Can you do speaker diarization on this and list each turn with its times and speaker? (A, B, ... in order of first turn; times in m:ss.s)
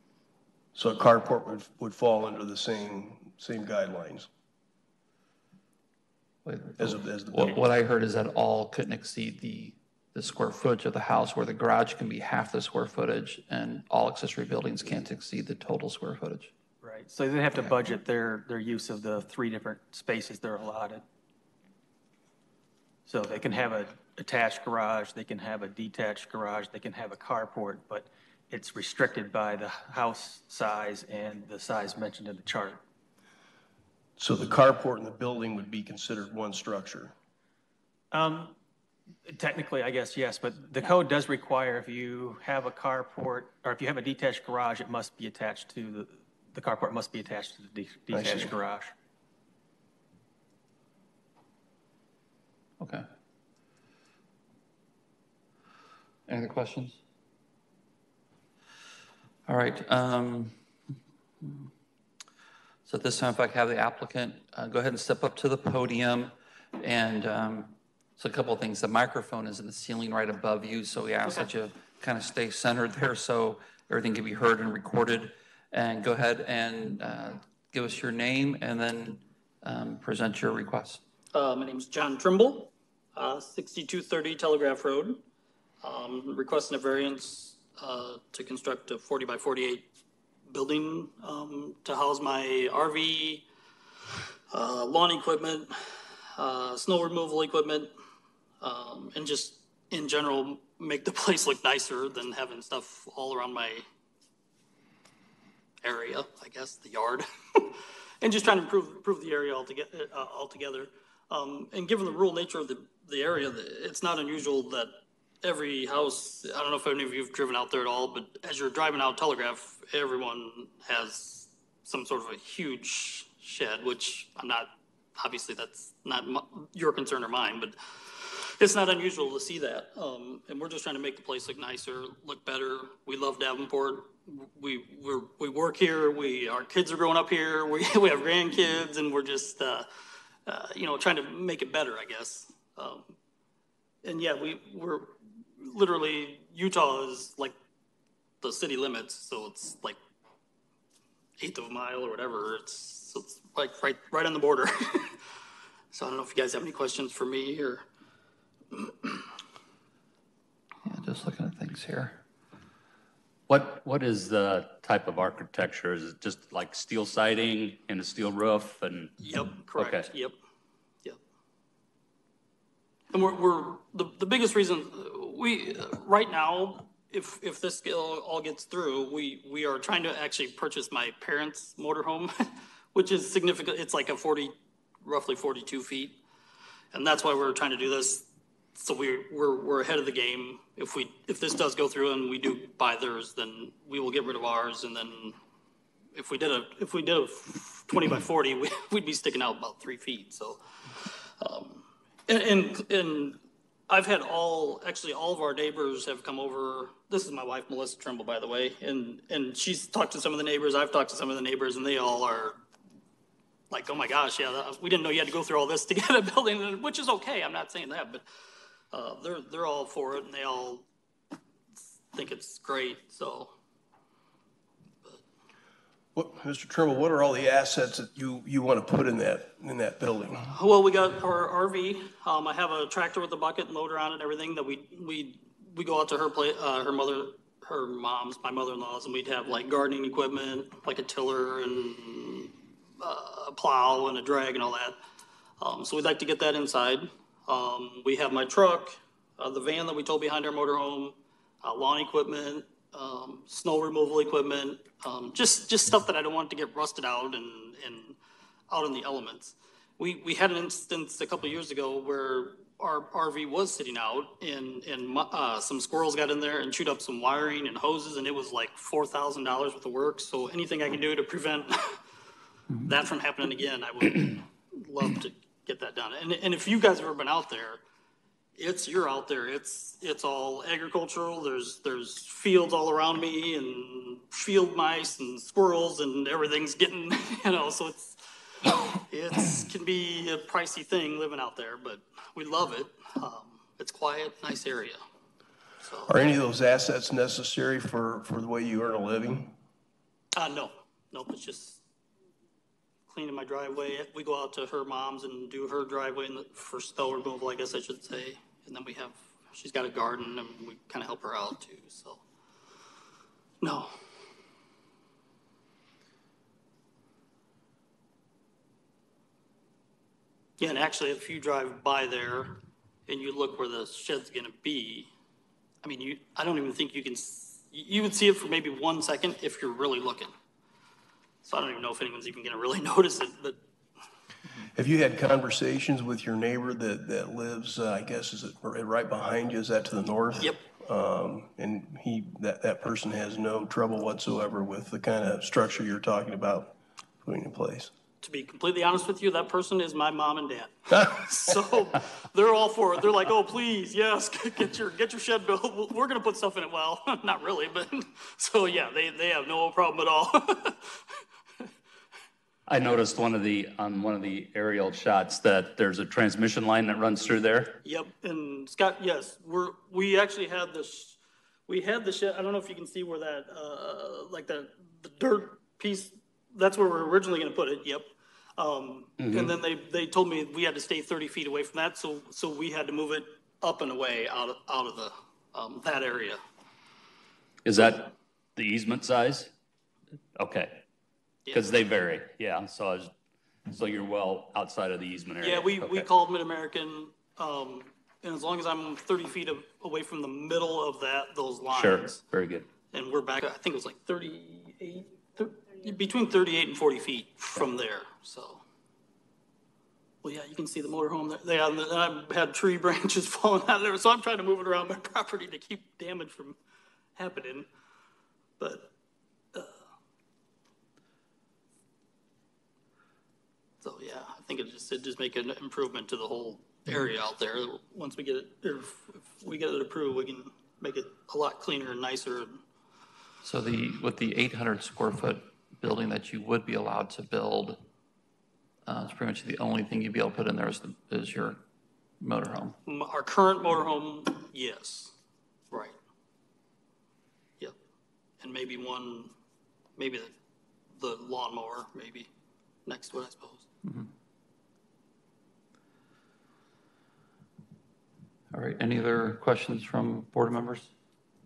0:00.8-0:04.3 A
0:06.4-0:16.5 B
0:06.8-0:07.6 A
0:16.8-0:21.0 C
0:23.1-0:32.8 C
0:34.2-0:37.1 A
0:38.1-0:38.6 C
0:39.3-0:48.9 C
0:48.1-0:48.5 A
0:52.8-0:53.1 B
0:56.3-0:57.0 B
0:59.5-1:00.6 B
1:01.4-1:01.7 B
1:02.8-1:21.0 B
1:21.3-1:25.2 D
1:25.8-1:29.9 D
1:30.5-1:33.5 D
1:34.5-1:35.7 D
1:36.4-1:37.9 D
1:38.6-1:43.8 D
1:45.8-1:54.9 D
1:55.4-2:19.9 D
2:20.5-2:23.1 D
2:24.0-2:27.6 D
2:28.4-2:30.0 D
2:31.4-2:35.2 D
2:35.9-2:37.8 D
2:38.7-2:39.2 D
2:40.8-2:42.2 B
2:43.5-2:49.1 E
2:49.2-2:50.4 D
2:49.8-2:50.1 E
2:53.1-3:02.3 D
3:02.9-3:06.2 D
3:06.9-3:15.4 D
3:16.1-3:32.6 D
3:33.7-3:38.2 D
3:38.9-3:40.9 D
3:42.1-3:43.5 D
3:46.2-3:50.5 A
3:50.5-4:05.0 D
4:05.6-4:18.2 D
4:18.7-4:32.0 D
4:32.8-4:37.8 D
4:38.6-4:55.0 D
4:55.8-4:56.1 D
4:56.1-4:59.6 A
5:00.3-5:01.8 D
5:03.1-5:12.2 D
5:13.6-5:13.9 D
5:20.6-5:25.1 D
5:25.8-5:30.3 D
5:31.4-5:33.6 D
5:34.7-5:47.9 A
5:48.2-6:01.2 D
6:02.7-6:07.8 E
6:07.8-6:11.2 D
6:11.7-6:26.4 D
6:19.2-6:19.5 E
6:27.6-6:29.5 E
6:30.4-6:30.8 E
6:31.5-6:33.1 E
6:33.7-6:36.1 E
6:35.4-6:42.2 D
6:41.7-6:42.7 E
6:42.9-6:48.6 D
6:50.2-6:56.6 D
6:57.2-6:57.7 D
6:58.6-6:58.9 D
7:03.8-7:12.6 D
7:13.4-7:17.8 B
7:18.8-7:21.6 B
7:22.2-7:22.8 B
7:22.9-7:25.1 D
7:25.7-7:26.0 D
7:28.4-7:29.3 D
7:30.0-7:30.3 D
7:31.0-7:32.3 D
7:32.9-7:33.6 D
7:33.8-7:34.1 B
7:38.5-7:40.9 B